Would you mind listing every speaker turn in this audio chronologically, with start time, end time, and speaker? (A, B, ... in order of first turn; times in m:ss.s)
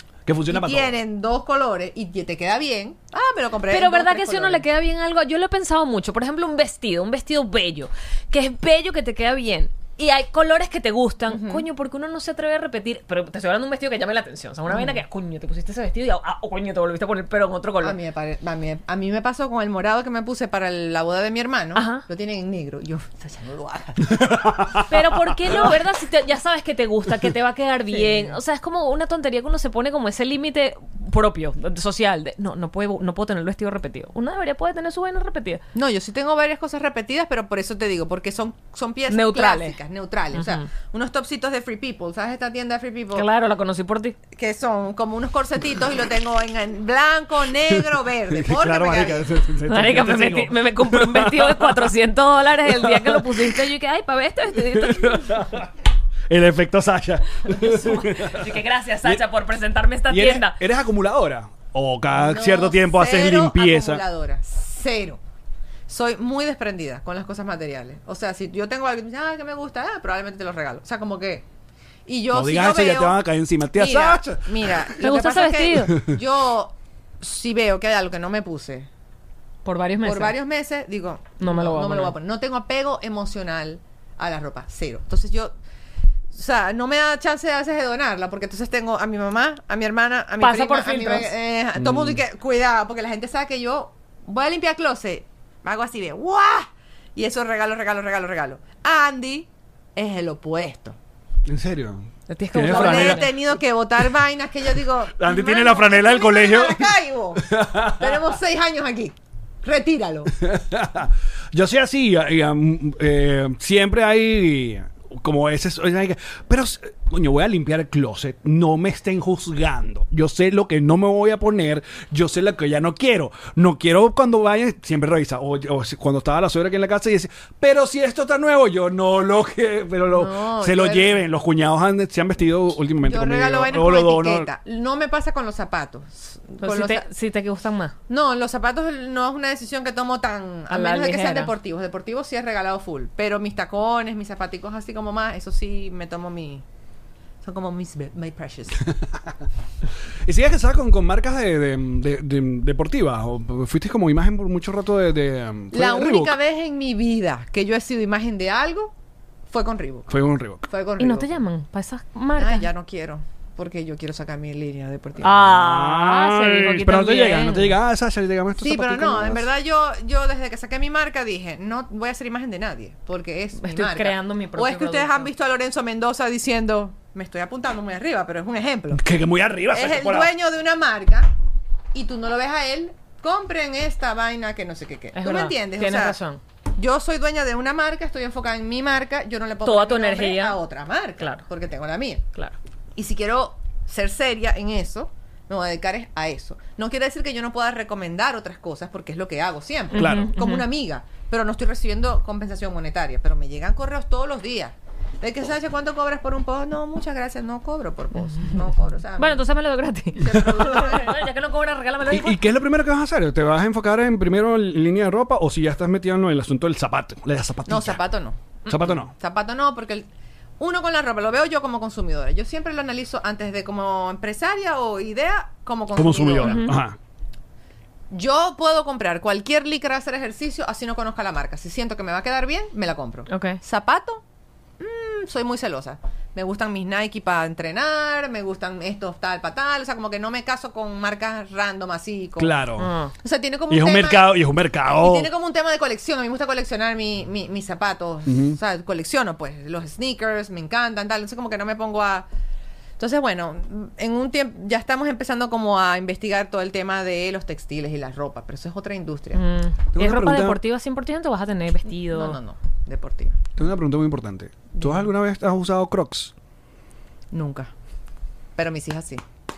0:00.3-0:00.9 A
0:00.5-0:04.6 B
0:03.7-0:18.0 C
0:11.3-0:11.6 B
0:14.7-0:15.0 B
0:17.8-0:24.8 B
0:21.8-0:22.0 C
0:24.1-0:25.0 A
0:24.9-0:35.6 C
0:27.9-0:28.4 B
0:35.7-0:43.3 B
0:39.1-0:39.8 C
0:40.3-0:40.6 C
0:43.2-0:44.2 C
0:44.3-0:49.3 B
0:48.3-0:51.9 A
0:49.7-0:55.5 C
0:52.7-0:53.6 A
0:54.7-0:55.7 A
0:56.3-0:59.2 A
0:57.5-1:00.6 C
1:00.1-1:04.0 A
1:02.1-1:05.2 B
1:05.9-1:11.4 B
1:12.1-1:13.2 B
1:12.3-1:14.9 A
1:13.7-1:18.9 B
1:15.0-1:16.0 C
1:19.6-1:20.4 C
1:20.0-1:25.5 B
1:21.4-1:22.2 C
1:26.3-1:41.0 B
1:30.4-1:31.3 C
1:31.8-1:32.2 A
1:41.5-1:43.3 A
1:42.3-1:43.3 C
1:42.6-1:50.4 B
1:45.2-1:48.2 A
1:50.4-2:14.5 A
2:10.1-2:11.2 B
2:13.0-2:17.1 B
2:16.6-2:18.0 C
2:18.1-2:26.6 B
2:20.7-2:21.5 C
2:27.4-2:28.9 B
2:28.8-2:29.3 A
2:30.2-2:36.4 A
2:35.7-2:38.9 B
2:39.5-2:40.1 B
2:40.1-2:40.6 A
2:40.6-2:41.4 B
2:41.0-2:42.7 C
2:42.4-2:45.5 B
2:45.2-2:47.8 C
2:45.4-2:49.5 A
2:48.6-2:59.0 B
2:53.6-2:55.3 C
2:58.9-3:00.3 A
2:59.7-3:01.3 B
3:01.9-3:06.2 B
3:05.1-3:06.4 C
3:06.8-3:12.2 B
3:09.6-3:10.6 C
3:13.0-3:29.5 B
3:19.9-3:20.3 A
3:19.9-3:20.6 C
3:29.2-3:32.4 C
3:30.2-3:31.2 B
3:32.1-3:38.0 A
3:37.7-3:40.1 B
3:38.7-3:39.1 A
3:40.6-3:46.7 B
3:46.0-3:47.0 A
3:46.4-3:46.8 C
3:48.1-3:54.2 B
3:53.3-3:53.6 C
3:54.8-4:02.6 B
4:02.4-4:02.9 A
4:02.8-4:03.1 C
4:03.2-4:12.3 B
4:03.7-4:05.3 A
4:08.3-4:08.6 A
4:13.0-4:19.4 B
4:19.3-4:22.4 C
4:19.9-4:20.6 A
4:21.9-4:23.4 B
4:23.6-4:26.3 A
4:27.3-4:27.7 B
4:28.6-4:29.2 B